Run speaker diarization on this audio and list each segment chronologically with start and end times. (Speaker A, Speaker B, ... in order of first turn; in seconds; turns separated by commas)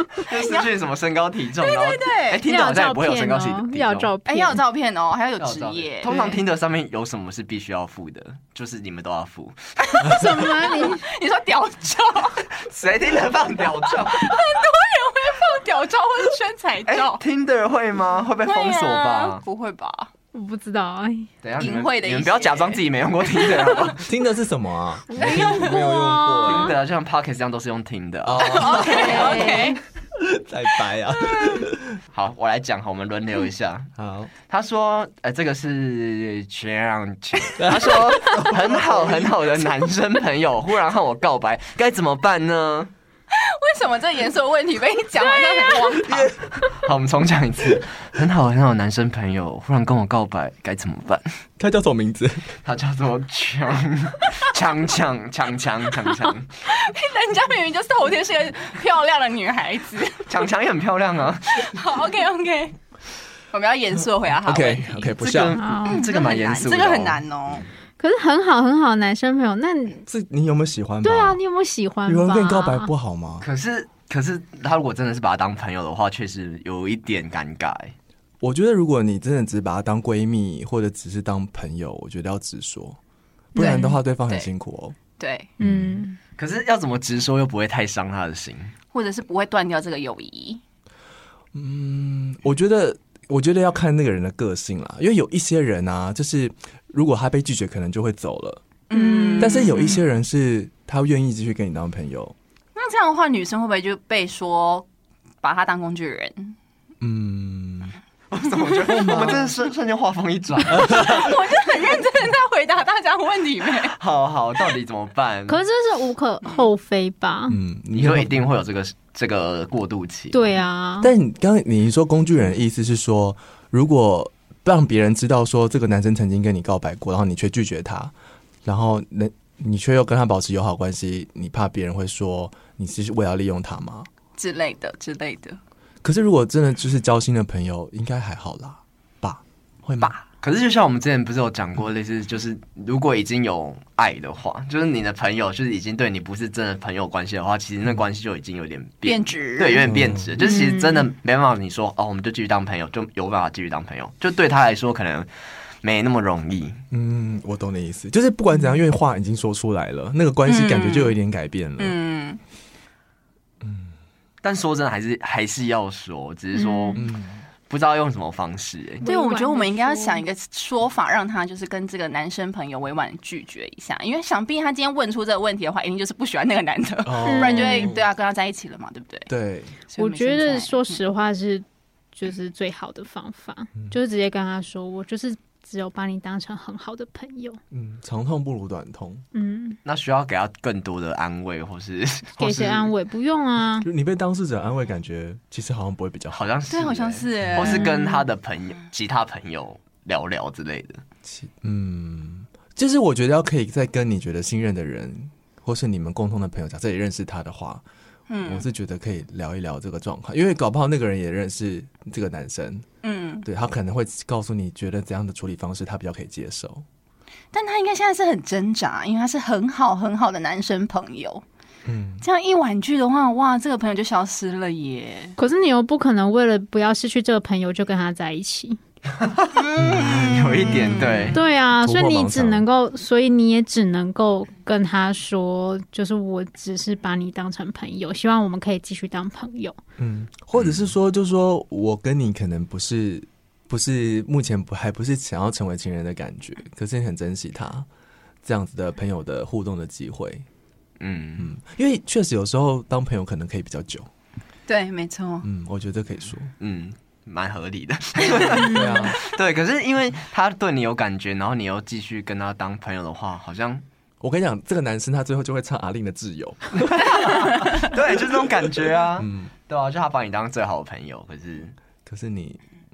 Speaker A: 0.2-4.1, Speaker B: 0.3-0.7, Speaker B: 1.6-2.4, Speaker C: 2.4-4.6, Speaker B: 4.2-6.4, Speaker A: 5.4-9.6, Speaker C: 6.0-6.4, Speaker B: 9.8-12.4, Speaker C: 10.0-11.0, Speaker A: 12.6-14.3, Speaker B: 13.8-17.2, Speaker A: 16.9-19.4, Speaker B: 18.4-20.1, Speaker C: 20.3-21.3, Speaker A: 21.4-24.0, Speaker B: 21.6-23.9, Speaker D: 24.0-26.8, Speaker C: 25.1-26.7, Speaker B: 25.2-25.7, Speaker A: 26.4-28.8, Speaker D: 28.2-29.6, Speaker B: 28.4-29.8, Speaker C: 28.7-29.8, Speaker D: 30.1-32.0, Speaker A: 32.1-33.9, Speaker D: 34.0-34.3, Speaker A: 34.5-42.9, Speaker D: 37.6-39.3, Speaker B: 43.3-46.3, Speaker A: 46.7-51.3, Speaker D: 51.6-52.5, Speaker A: 52.6-56.5, Speaker B: 56.6-60.3, Speaker A: 60.3-61.8, Speaker B: 61.6-62.8, Speaker B: 63.5-65.2, Speaker D: 64.4-65.6, Speaker A: 65.2-67.2, Speaker C: 65.6-66.1, Speaker B: 65.8-67.7, Speaker C: 68.0-70.0, Speaker D: 70.0-71.4, Speaker C: 71.0-72.9, Speaker D: 72.1-73.4, Speaker A: 73.4-77.9, Speaker D: 78.4-83.0, Speaker C: 83.5-84.0, Speaker D: 83.5-85.0, Speaker B: 85.2-85.5, Speaker D: 85.6-86.0, Speaker C: 85.6-86.2, Speaker A: 86.4-88.7, Speaker B: 88.9-90.6, Speaker D: 91.5-98.6, Speaker B: 98.9-100.0, Speaker C: 98.9-99.8, Speaker D: 99.4-102.3, Speaker B: 102.7-104.8, Speaker B: 105.4-106.5, Speaker D: 107.0-108.0, Speaker A: 108.3-111.2, Speaker D: 108.8-109.5, Speaker D: 110.7-111.3, Speaker B: 110.8-114.0, Speaker A: 113.9-115.6, Speaker C: 115.5-117.6, Speaker D: 117.5-118.4, Speaker A: 117.9-120.5, Speaker C: 120.3-121.1, Speaker D: 121.0-128.1, Speaker D: 128.6-134.1, Speaker B: 134.4-135.6, Speaker D: 136.0-140.1, Speaker A: 140.0-155.3, Speaker B: 149.0-150.0, Speaker D: 149.9-150.3, Speaker C: 150.4-151.0, Speaker A: 155.8-156.8, Speaker D: 156.9-161.9, Speaker B: 160.4-161.2, Speaker B: 161.8-162.4, Speaker D: 163.6-163.9, Speaker A: 164.4-167.0, Speaker C: 166.5-167.0, Speaker D: 166.9-167.4, Speaker A: 167.7-169.1, Speaker C: 169.0-170.2, Speaker B: 169.0-179.3, Speaker D: 177.0-178.0, Speaker C: 177.2-177.9, Speaker D: 179.3-179.8, Speaker B: 179.9-181.0, Speaker C: 180.0-181.6, Speaker C: 182.2-187.6, Speaker D: 187.7-189.2, Speaker C: 189.3-189.8, Speaker A: 189.8-192.9, Speaker C: 192.4-193.9, Speaker D: 193.8-196.4, Speaker A: 196.3-201.0, Speaker B: 196.7-198.0, Speaker D: 201.2-207.8, Speaker B: 208.3-208.7, Speaker D: 208.4-212.8, Speaker B: 213.0-213.4, Speaker D: 213.4-216.8, Speaker B: 217.5-221.4, Speaker D: 221.8-222.2, Speaker B: 222.2-225.3, Speaker C: 225.4-228.8, Speaker A: 229.2-231.4, Speaker B: 229.6-231.3, Speaker D: 229.8-230.8, Speaker C: 231.3-239.8, Speaker D: 231.3-232.7, Speaker D: 240.0-247.9, Speaker A: 240.6-240.9, Speaker D: 248.4-250.4, Speaker A: 251.0-251.5, Speaker D: 251.4-254.1, Speaker B: 254.7-255.4, Speaker D: 255.4-256.5, Speaker A: 256.6-263.8, Speaker D: 258.4-259.2, Speaker C: 258.6-259.1, Speaker D: 264.2-267.1, Speaker A: 266.8-271.7, Speaker D: 269.2-269.5, Speaker D: 272.1-272.6